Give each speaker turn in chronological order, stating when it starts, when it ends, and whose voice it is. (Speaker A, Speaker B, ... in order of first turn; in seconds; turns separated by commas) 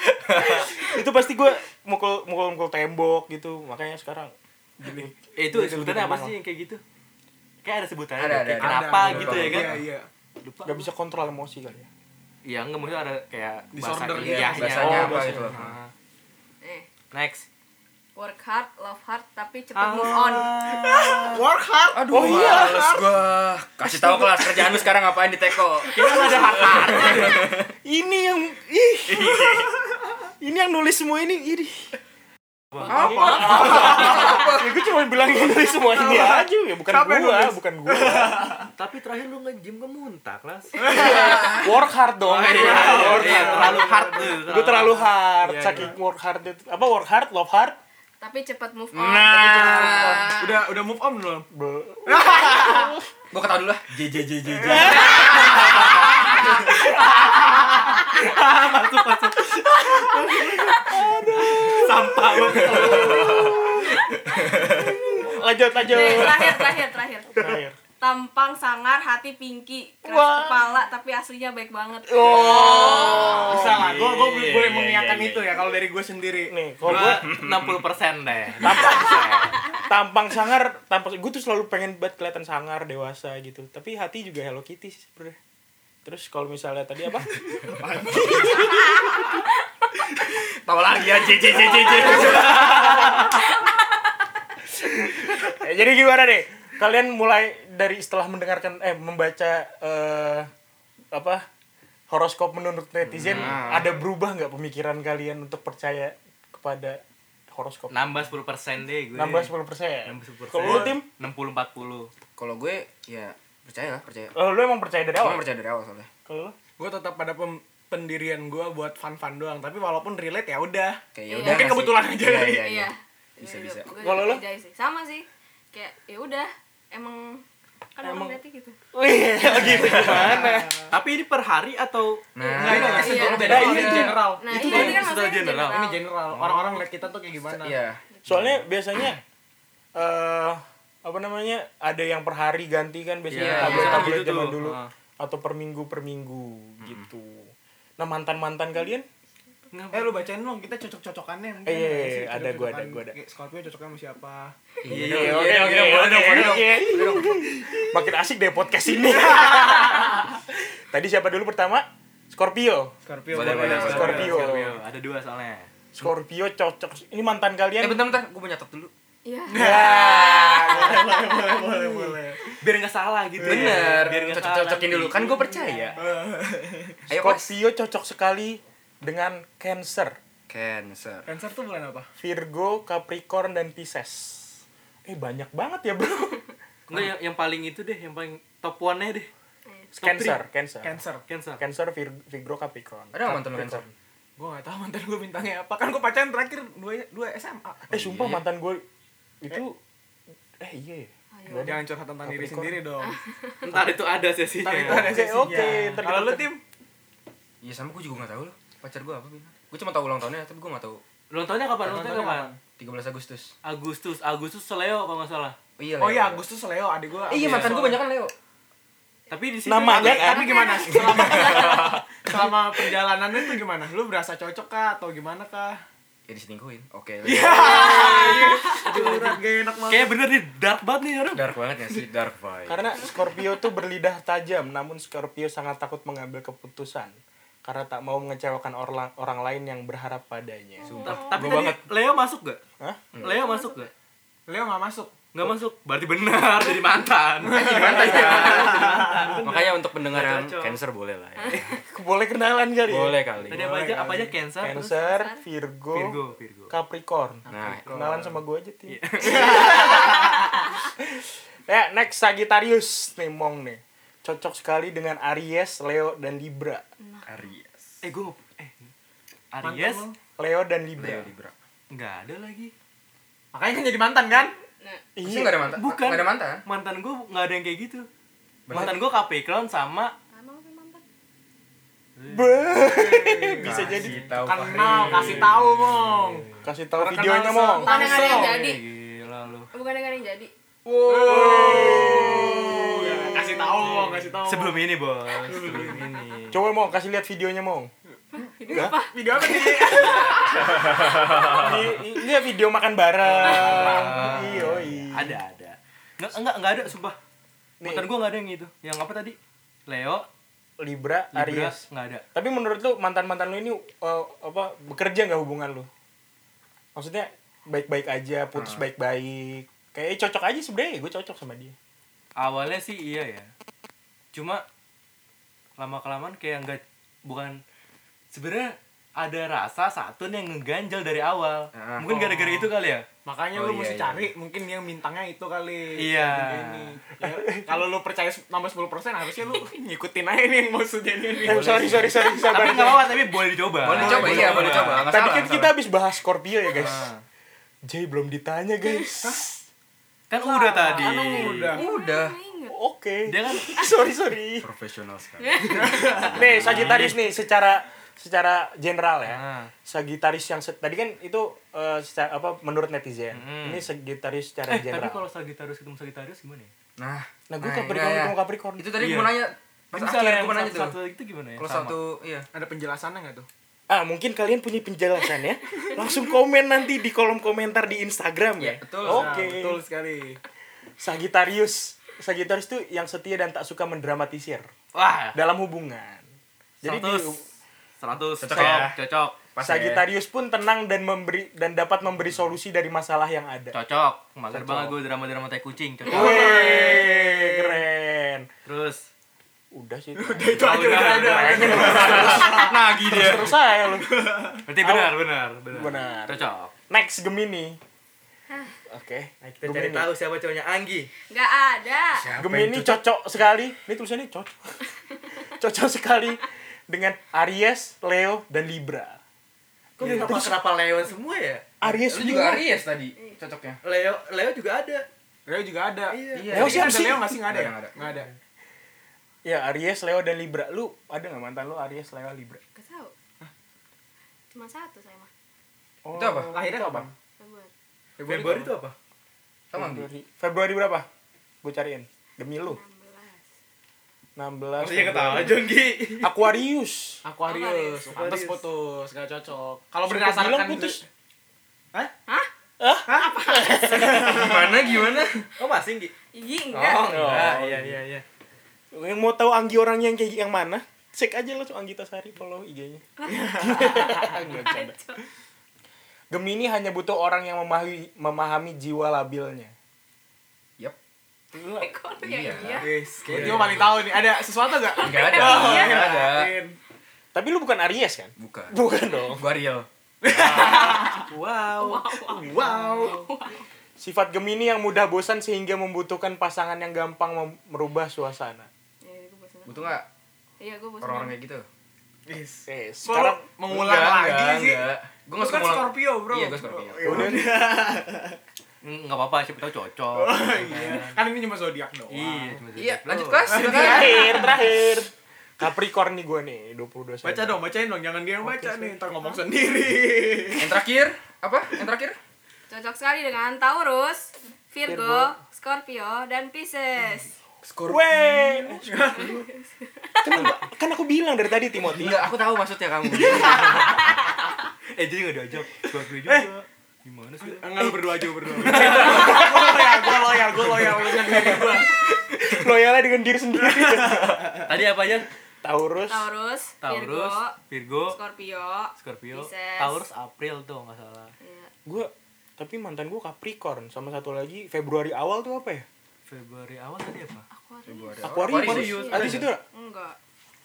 Speaker A: 0.3-6.4, Speaker B: 5.4-6.8, Speaker B: 7.6-9.8, Speaker C: 8.2-9.8, Speaker D: 8.5-10.1, Speaker B: 10.4-10.9, Speaker A: 10.6-11.9, Speaker B: 12.4-15.9, Speaker D: 13.7-15.7, Speaker C: 14.2-15.6, Speaker A: 14.7-15.8, Speaker E: 16.6-16.9, Speaker B: 17.1-17.5, Speaker E: 18.2-20.6, Speaker B: 19.8-21.4, Speaker D: 20.7-23.1, Speaker C: 21.9-27.7, Speaker A: 22.1-23.0, Speaker A: 23.8-24.9, Speaker B: 25.9-27.5, Speaker D: 25.9-27.4, Speaker A: 27.0-27.3, Speaker A: 27.8-29.7, Speaker C: 29.1-29.7, Speaker A: 30.4-31.9, Speaker B: 32.7-34.0, Speaker D: 32.8-34.5, Speaker C: 32.9-34.7, Speaker A: 33.0-38.6, Speaker D: 35.8-38.7, Speaker B: 38.8-41.2, Speaker D: 40.8-41.6, Speaker A: 40.9-47.8, Speaker C: 40.9-41.8, Speaker B: 42.2-45.9, Speaker D: 42.4-44.4, Speaker E: 48.2-50.2, Speaker C: 48.9-50.6, Speaker A: 49.6-50.2, Speaker D: 50.3-51.5, Speaker A: 51.5-53.0, Speaker D: 52.1-53.0, Speaker C: 53.3-56.1, Speaker D: 54.6-55.6, Speaker A: 54.7-55.5, Speaker B: 56.8-63.4, Speaker A: 60.1-66.7, Speaker C: 62.7-63.5, Speaker E: 63.0-64.2, Speaker C: 64.5-65.0, Speaker E: 65.8-67.5, Speaker A: 67.3-67.8, Speaker E: 68.0-73.6, Speaker A: 70.0-70.7, Speaker A: 72.1-75.2, Speaker D: 72.2-76.5, Speaker C: 72.8-75.5, Speaker A: 76.5-77.3, Speaker B: 76.8-79.7, Speaker C: 77.0-77.8, Speaker A: 78.6-85.4, Speaker A: 86.0-87.5, Speaker D: 87.6-88.9, Speaker A: 88.1-88.7, Speaker C: 90.7-93.2, Speaker A: 91.9-93.2, Speaker B: 92.6-93.2, Speaker A: 94.8-100.5, Speaker A: 101.1-101.5, Speaker A: 102.1-108.2, Speaker B: 103.2-103.7, Speaker C: 103.2-104.0, Speaker B: 107.9-109.5, Speaker A: 109.1-111.1, Speaker B: 110.1-112.1, Speaker D: 110.6-110.9, Speaker C: 112.4-114.4, Speaker A: 114.3-115.4, Speaker C: 115.2-116.1, Speaker A: 116.3-116.6, Speaker D: 116.8-122.7, Speaker C: 121.2-123.9, Speaker E: 121.3-121.8, Speaker E: 122.6-127.4, Speaker A: 124.0-124.4, Speaker E: 128.0-128.8, Speaker A: 128.0-128.4, Speaker A: 128.9-130.7, Speaker D: 129.8-130.9, Speaker B: 130.9-136.9, Speaker C: 132.3-134.2, Speaker D: 132.6-134.9, Speaker E: 132.9-133.7, Speaker A: 133.2-135.1, Speaker E: 134.4-136.0, Speaker D: 135.7-137.8, Speaker C: 137.5-138.4, Speaker A: 138.2-139.2, Speaker A: 140.0-149.1, Speaker B: 143.3-144.9, Speaker C: 143.3-144.2, Speaker B: 149.7-150.3, Speaker D: 149.9-154.6, Speaker A: 151.7-153.2, Speaker C: 154.8-157.5, Speaker B: 154.9-156.0, Speaker A: 154.9-162.9, Speaker D: 163.1-164.5, Speaker C: 163.3-164.4, Speaker B: 163.4-165.7, Speaker A: 163.7-164.8, Speaker A: 165.9-168.1, Speaker C: 167.8-168.9, Speaker E: 169.2-172.2, Speaker D: 169.5-172.6, Speaker A: 169.5-170.7, Speaker B: 172.6-176.0, Speaker C: 173.4-176.0, Speaker D: 173.5-173.8, Speaker D: 176.0-177.0, Speaker C: 177.1-177.6, Speaker A: 177.1-180.2, Speaker C: 180.5-181.3, Speaker D: 181.3-182.1, Speaker A: 182.2-187.1, Speaker B: 186.9-189.3, Speaker A: 189.9-191.0, Speaker D: 190.0-191.2, Speaker B: 191.3-191.6, Speaker A: 191.6-193.9, Speaker C: 193.1-193.8, Speaker D: 194.4-197.9, Speaker C: 197.9-198.4, Speaker A: 197.9-198.8, Speaker A: 199.4-199.8, Speaker A: 200.6-202.8, Speaker E: 201.3-201.8, Speaker D: 201.6-203.2, Speaker E: 203.0-203.6, Speaker B: 203.6-205.9, Speaker D: 204.6-206.6, Speaker A: 204.8-206.5, Speaker C: 207.6-211.0, Speaker B: 211.3-212.5, Speaker D: 211.8-212.6, Speaker C: 212.8-213.5, Speaker B: 213.6-215.6, Speaker C: 215.8-216.5, Speaker D: 216.0-218.0, Speaker C: 217.3-218.3, Speaker B: 219.3-220.4, Speaker A: 219.7-220.7, Speaker D: 219.8-225.8, Speaker E: 220.3-221.8, Speaker C: 221.2-222.0, Speaker A: 221.4-222.0, Speaker C: 226.3-228.3, Speaker D: 227.2-230.2, Speaker E: 227.5-228.9, Speaker B: 228.2-231.5, Speaker C: 231.3-233.1, Speaker A: 232.7-241.8, Speaker E: 240.8-241.4, Speaker C: 240.9-241.7, Speaker B: 241.0-242.6, Speaker A: 242.8-243.2, Speaker C: 243.1-243.4, Speaker B: 243.2-243.9, Speaker E: 243.2-243.9, Speaker D: 244.5-245.2, Speaker B: 245.3-250.8, Speaker D: 247.4-249.4, Speaker C: 247.5-251.7, Speaker E: 251.4-251.8, Speaker A: 251.6-253.2, Speaker C: 252.9-253.7, Speaker D: 253.5-254.4, Speaker B: 253.5-254.9, Speaker A: 254.6-260.3, Speaker E: 254.8-255.4, Speaker B: 255.9-256.7, Speaker D: 257.5-258.3, Speaker C: 257.5-257.9, Speaker B: 258.9-259.5, Speaker C: 259.2-259.6, Speaker D: 259.2-260.6, Speaker E: 259.9-260.4, Speaker A: 261.0-266.8, Speaker E: 267.0-267.4, Speaker C: 267.3-268.0, Speaker B: 268.0-268.9, Speaker B: 269.5-270.1, Speaker D: 269.6-270.1, Speaker A: 270.4-271.3, Speaker C: 271.0-271.5, Speaker B: 271.9-272.7, Speaker D: 273.5-274.5, Speaker A: 275.2-275.8, Speaker C: 275.2-276.6, Speaker B: 275.7-278.1, Speaker C: 278.7-279.0, Speaker B: 278.7-280.1, Speaker A: 278.7-279.0, Speaker E: 280.3-281.0, Speaker B: 282.2-282.9, Speaker A: 282.3-284.2, Speaker D: 282.8-288.6, Speaker C: 283.6-285.8, Speaker B: 283.9-286.7, Speaker A: 286.6-287.9, Speaker E: 287.8-288.8, Speaker B: 287.9-289.7, Speaker E: 289.7-290.5, Speaker C: 290.9-292.4, Speaker A: 290.9-293.8, Speaker D: 291.1-294.9, Speaker B: 293.8-296.7, Speaker D: 295.4-296.1, Speaker A: 296.5-297.9, Speaker E: 298.4-301.4, Speaker D: 298.7-300.7, Speaker C: 300.8-301.8, Speaker A: 301.5-305.4, Speaker B: 303.3-307.2, Speaker D: 303.6-304.1, Speaker A: 307.8-308.1, Speaker B: 307.8-310.3, Speaker A: 310.8-311.8, Speaker B: 311.3-312.2, Speaker A: 312.4-315.9, Speaker A: 316.9-321.8, Speaker C: 318.6-318.8, Speaker B: 322.4-323.5, Speaker B: 324.3-324.6, Speaker B: 325.8-327.6, Speaker B: 328.3-333.1, Speaker C: 331.7-332.7, Speaker D: 333.2-342.1, Speaker C: 333.5-334.3, Speaker B: 336.0-336.9, Speaker A: 337.3-337.8, Speaker A: 341.4-343.3, Speaker C: 341.5-342.1, Speaker B: 341.7-345.1, Speaker C: 343.8-345.8, Speaker A: 343.9-347.1, Speaker D: 344.0-344.8, Speaker B: 346.8-347.2, Speaker A: 347.9-349.6, Speaker D: 349.2-349.5, Speaker B: 350.3-351.8, Speaker D: 350.4-351.9, Speaker C: 351.0-352.4, Speaker E: 351.4-352.8, Speaker A: 352.7-354.7, Speaker B: 353.3-353.8, Speaker C: 354.6-357.1, Speaker E: 355.4-355.9, Speaker D: 355.7-356.4, Speaker A: 356.3-365.2, Speaker B: 356.6-357.2, Speaker B: 359.3-359.7, Speaker B: 363.3-363.9, Speaker B: 364.7-366.7, Speaker C: 367.0-371.0, Speaker A: 367.5-368.9, Speaker B: 369.0-369.4, Speaker B: 369.9-372.0, Speaker C: 371.6-372.5, Speaker D: 372.5-373.5, Speaker A: 373.9-379.8, Speaker C: 378.6-379.4, Speaker D: 379.0-380.4, Speaker A: 381.0-384.7, Speaker B: 384.9-385.4, Speaker A: 385.3-386.2, Speaker A: 386.8-387.4, Speaker B: 386.8-387.4, Speaker B: 388.0-389.8, Speaker C: 388.4-389.0, Speaker A: 388.5-388.9, Speaker C: 389.6-390.0, Speaker A: 389.6-393.8, Speaker B: 393.7-396.7, Speaker A: 394.5-395.0, Speaker A: 396.1-398.5, Speaker D: 396.1-397.8, Speaker B: 398.7-399.0, Speaker A: 399.7-404.2, Speaker D: 400.2-402.8, Speaker B: 400.6-402.5, Speaker C: 401.7-403.6, Speaker D: 403.9-404.6, Speaker B: 404.6-406.7, Speaker A: 404.8-405.1, Speaker A: 405.7-407.8, Speaker A: 408.9-410.1, Speaker B: 409.4-411.1, Speaker E: 411.3-412.3, Speaker C: 412.2-413.0, Speaker A: 412.4-414.8, Speaker A: 415.6-419.2, Speaker B: 420.0-421.7, Speaker D: 420.0-420.3, Speaker A: 420.0-420.6, Speaker A: 421.8-422.6, Speaker C: 421.9-423.8, Speaker B: 423.8-425.1, Speaker D: 425.5-428.3, Speaker B: 426.1-426.8, Speaker C: 426.3-427.9, Speaker A: 426.5-427.4, Speaker A: 429.4-432.6, Speaker E: 432.8-433.1, Speaker E: 434.5-435.3, Speaker A: 436.0-437.1, Speaker C: 436.1-436.6, Speaker D: 436.5-437.1, Speaker E: 437.4-437.7, Speaker D: 438.2-438.8, Speaker B: 438.2-439.0, Speaker C: 439.7-440.1, Speaker A: 439.7-441.1, Speaker A: 441.6-442.8, Speaker E: 442.6-443.4, Speaker A: 444.4-445.7, Speaker B: 444.8-446.3, Speaker A: 446.2-447.2, Speaker D: 447.2-451.0, Speaker E: 447.5-448.1, Speaker B: 448.1-448.7, Speaker A: 450.0-451.1, Speaker A: 452.8-454.4, Speaker D: 453.1-454.8, Speaker E: 453.5-453.8, Speaker C: 454.0-455.4, Speaker B: 455.6-456.1, Speaker E: 456.3-457.2, Speaker B: 456.7-458.2, Speaker C: 457.0-457.6, Speaker A: 457.1-458.0, Speaker A: 458.9-465.0, Speaker E: 463.2-465.2, Speaker D: 463.3-464.2, Speaker A: 466.3-469.7, Speaker E: 471.6-473.0, Speaker C: 472.2-474.1, Speaker D: 472.8-476.8, Speaker B: 473.3-473.8, Speaker E: 474.6-476.1, Speaker C: 475.0-476.6, Speaker A: 477.3-479.4, Speaker C: 478.4-479.9, Speaker D: 480.2-481.3, Speaker A: 480.3-480.9, Speaker B: 480.5-482.1, Speaker E: 481.8-483.6, Speaker D: 482.2-483.2, Speaker A: 484.0-488.7, Speaker E: 489.0-490.0, Speaker C: 489.7-490.1, Speaker E: 490.6-491.4, Speaker C: 491.0-491.7, Speaker D: 492.3-494.9, Speaker A: 492.7-493.4, Speaker C: 493.7-497.4, Speaker D: 495.4-498.4, Speaker A: 497.0-497.6, Speaker B: 498.8-501.2, Speaker D: 500.1-502.6, Speaker B: 502.1-503.7, Speaker C: 502.8-504.4, Speaker D: 503.5-504.6, Speaker A: 503.6-507.6, Speaker D: 507.2-510.7, Speaker A: 508.4-509.0, Speaker C: 510.6-512.2, Speaker E: 512.7-517.3, Speaker A: 514.9-515.4, Speaker C: 517.6-518.1, Speaker A: 517.9-519.3, Speaker D: 518.8-519.5, Speaker E: 519.1-519.6, Speaker A: 520.2-522.3, Speaker C: 521.9-524.1, Speaker E: 523.5-524.1, Speaker B: 525.0-527.9, Speaker A: 526.2-526.5, Speaker D: 527.4-532.1, Speaker A: 528.6-534.8, Speaker B: 528.7-529.2, Speaker D: 533.7-534.6, Speaker B: 534.7-535.3, Speaker A: 535.6-536.3, Speaker E: 536.1-540.1, Speaker B: 536.8-538.2, Speaker B: 539.0-541.3, Speaker E: 541.4-541.7, Speaker A: 541.9-545.9, Speaker B: 546.3-547.5, Speaker E: 547.5-550.2, Speaker C: 547.9-549.5, Speaker A: 548.2-549.6, Speaker B: 548.4-549.5